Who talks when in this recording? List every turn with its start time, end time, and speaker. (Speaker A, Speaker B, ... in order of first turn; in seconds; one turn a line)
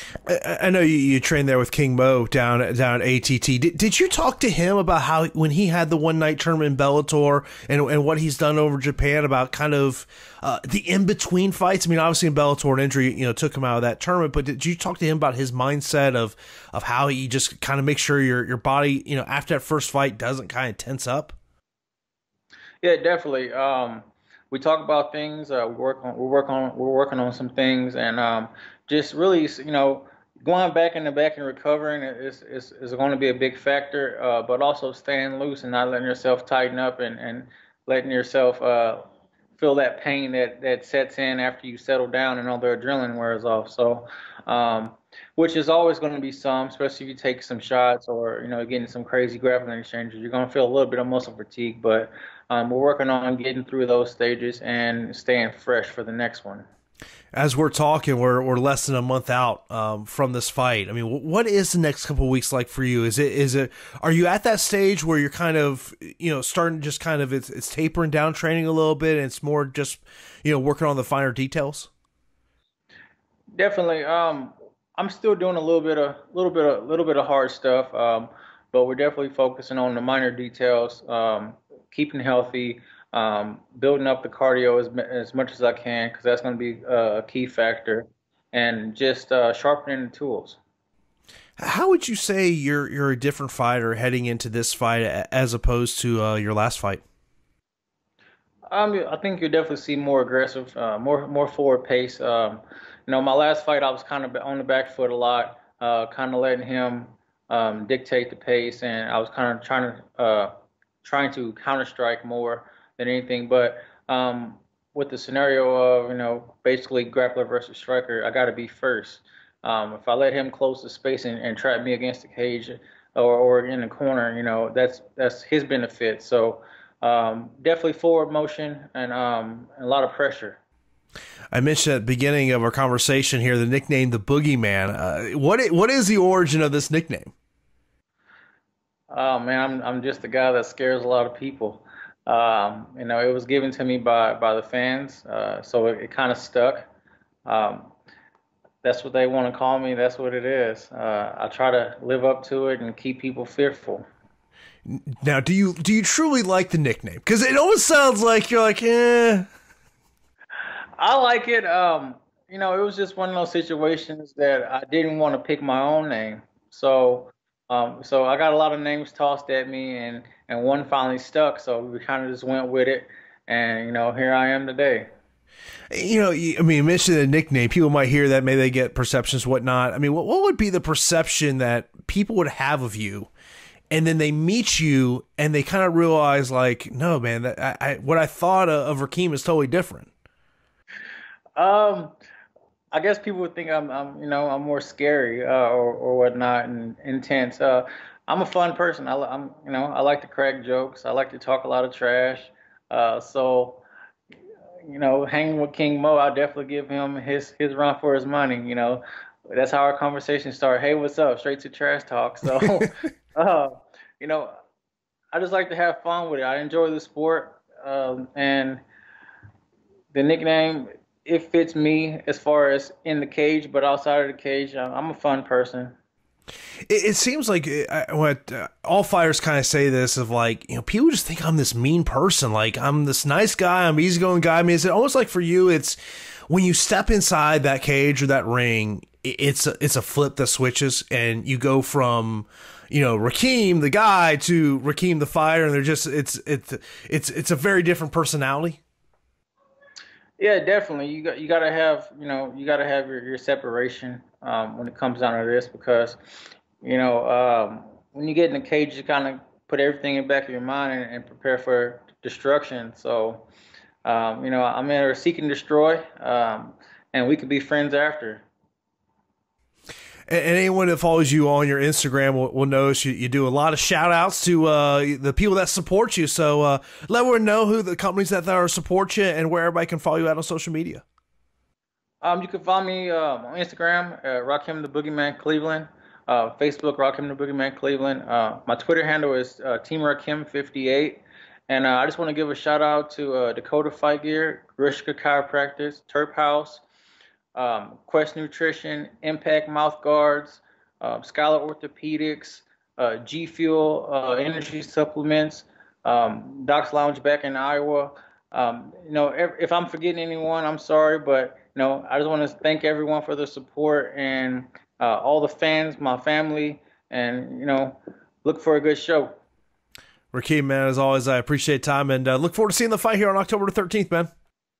Speaker A: 0.3-21.4
Speaker B: 22.8-39.0
Speaker B: 39.5-56.7
Speaker A: 57.3-71.9
Speaker B: 73.6-90.6
Speaker A: 91.6-97.0
Speaker B: 98.7-130.6
Speaker A: 131.5-137.3
Speaker B: 139.1-146.9
Speaker B: 147.4-147.9
Speaker B: 148.8-154.1
Speaker A: 154.9-159.5
Speaker B: 161.0-175.1
Speaker A: 175.9-183.3
Speaker A: 183.9-190.1
Speaker B: 191.6-192.1
Speaker B: 192.9-203.8
Speaker B: 204.8-214.5
Speaker B: 215.3-218.8
Speaker B: 220.1-225.9
Speaker A: 226.9-236.0
Speaker A: 236.5-248.8
Speaker B: 250.4-256.2
Speaker B: 256.8-263.5
Speaker B: 264.0-268.4
Speaker A: 270.3-281.0
Speaker B: 282.2-296.8
Speaker B: 297.5-319.3
Speaker A: 320.3-324.3